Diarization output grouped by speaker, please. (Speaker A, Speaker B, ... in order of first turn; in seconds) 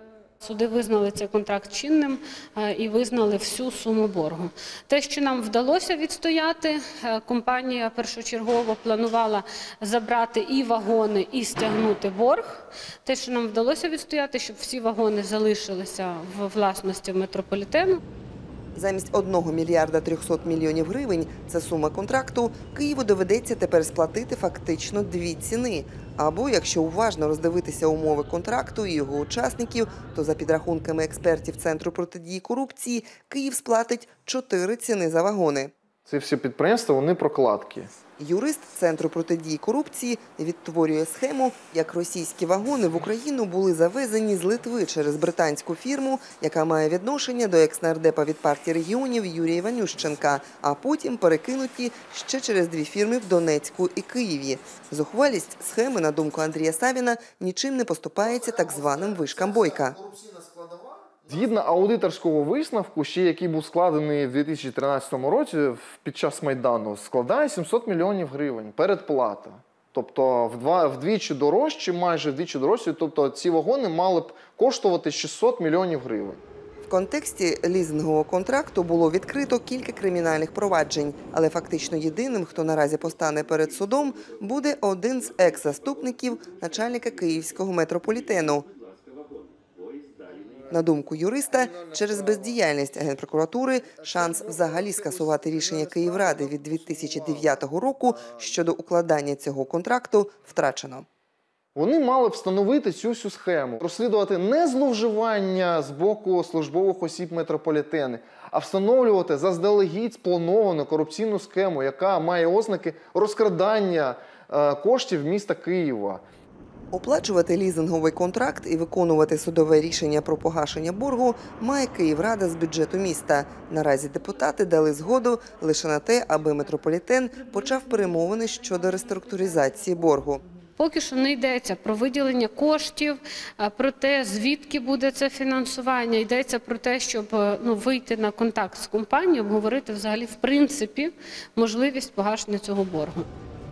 Speaker A: 0.4-18.0, 130.8-143.2
Speaker B: 18.7-35.7, 38.2-60.0, 76.8-88.7, 90.7-101.0, 116.9-130.4
Speaker C: 36.1-37.9, 58.2-76.4, 90.2-90.8, 91.5-92.5, 94.0-97.6, 101.7-116.2